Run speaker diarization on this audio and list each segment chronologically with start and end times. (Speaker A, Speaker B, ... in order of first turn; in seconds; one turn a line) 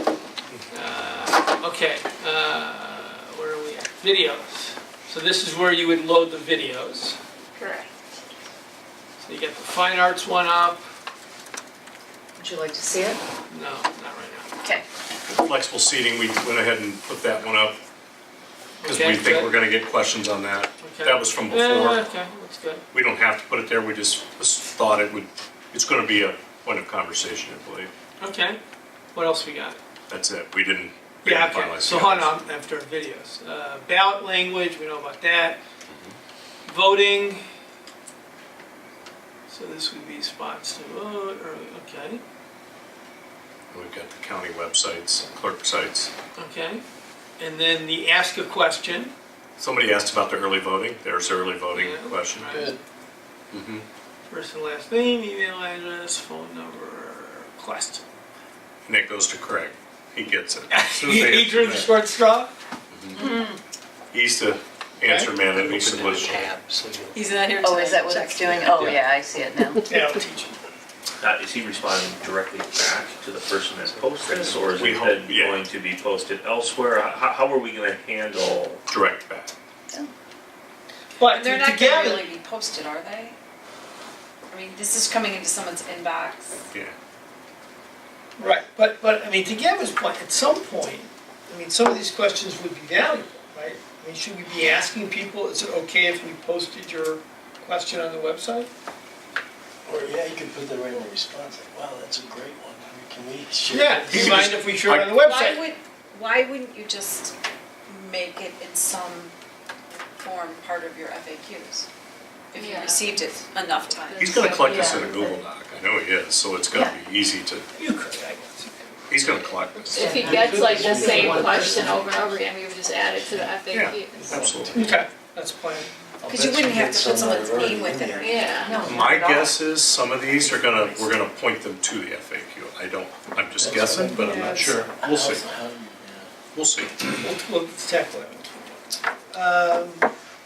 Speaker A: 0.7-7.2
Speaker B: 7.6-7.8
Speaker A: 9.2-10.8
Speaker C: 12.4-13.2
Speaker A: 13.5-14.5
Speaker D: 15.3-17.8
Speaker A: 18.8-19.6
Speaker D: 18.8-22.1
Speaker A: 20.8-22.8
Speaker D: 22.9-27.9
Speaker A: 28.2-28.6
Speaker A: 29.1-29.8
Speaker D: 30.1-32.4
Speaker A: 31.2-35.6
Speaker D: 35.9-36.1
Speaker A: 36.6-37.4
Speaker A: 39.5-42.2
Speaker D: 43.7-46.1
Speaker A: 46.4-46.8
Speaker A: 47.4-49.1
Speaker D: 49.6-52.6
Speaker A: 51.7-52.7
Speaker E: 52.5-52.8
Speaker D: 53.5-53.8
Speaker A: 54.3-58.0
Speaker D: 58.9-62.0
Speaker A: 60.7-62.5
Speaker D: 62.9-63.2
Speaker D: 64.1-66.5
Speaker A: 65.0-65.3
Speaker E: 65.5-67.0
Speaker F: 67.1-68.7
Speaker C: 67.6-70.0
Speaker A: 69.8-70.5
Speaker G: 71.2-78.8
Speaker E: 74.3-74.7
Speaker D: 74.7-75.6
Speaker D: 78.9-79.5
Speaker A: 81.2-82.3
Speaker F: 81.2-83.3
Speaker F: 84.5-86.6
Speaker A: 88.4-98.7
Speaker E: 99.8-104.5
Speaker A: 103.7-105.6
Speaker D: 104.1-105.2
Speaker F: 105.1-107.3
Speaker F: 107.9-109.3
Speaker F: 110.2-111.9
Speaker F: 112.5-114.5
Speaker B: 112.5-113.3
Speaker B: 114.0-115.4
Speaker D: 114.2-117.7
Speaker C: 114.6-115.4
Speaker A: 117.7-119.0
Speaker D: 119.1-120.2
Speaker B: 119.9-124.6
Speaker C: 119.9-122.3
Speaker E: 120.1-122.0
Speaker D: 123.7-125.0
Speaker E: 124.2-125.0
Speaker A: 124.7-125.9
Speaker E: 126.2-128.4
Speaker F: 126.3-128.7
Speaker B: 128.2-128.8
Speaker C: 128.6-129.6
Speaker D: 128.8-135.5
Speaker E: 133.6-136.3
Speaker A: 134.1-134.7
Speaker D: 136.5-137.1
Speaker A: 137.2-140.1